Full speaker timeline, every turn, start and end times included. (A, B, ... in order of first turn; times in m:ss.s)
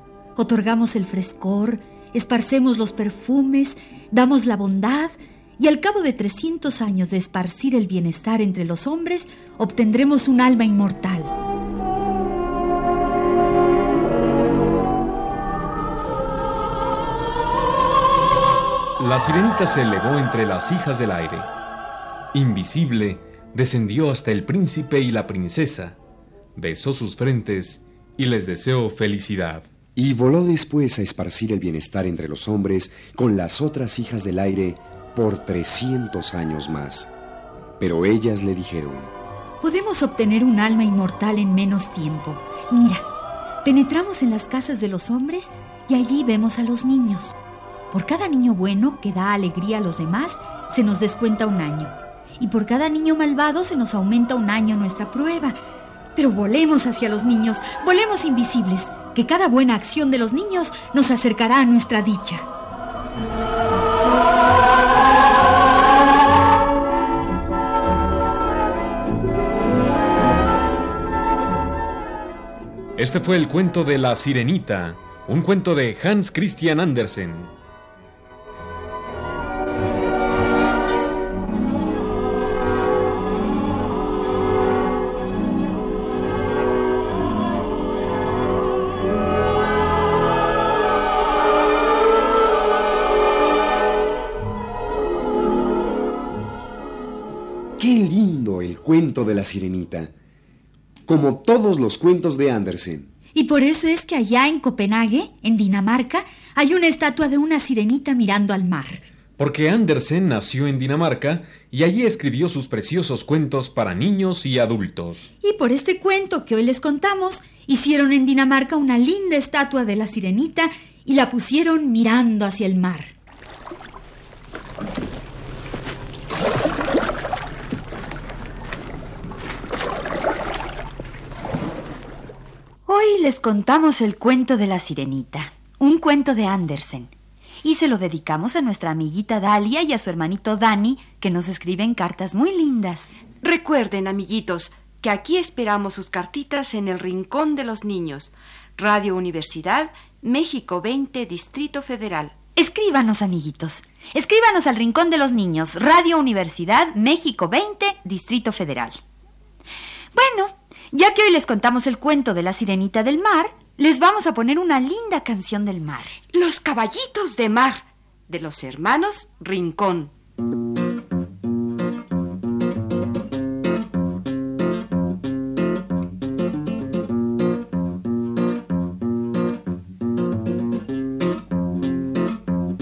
0:00.4-0:11.3 A
0:19.0-0:21.5 B
0:22.3-0:26.0 B
0:26.6-0:29.7 B
0:30.0-0:37.1 C
0:37.8-0:39.1 C
0:39.6-0:43.0 A
0:43.6-0:47.4 A
0:47.9-0:55.6 A
0:56.2-1:02.4 A
1:13.0-1:17.5 B
1:37.8-1:40.1 C
1:41.0-1:43.1 C
1:43.3-1:49.0 A
1:49.4-1:55.3 B
1:55.4-2:03.1 A
2:12.9-2:23.2 A
2:23.4-2:32.3 D
2:32.6-2:39.0 A
2:40.1-2:46.2 A
2:46.3-2:50.1 D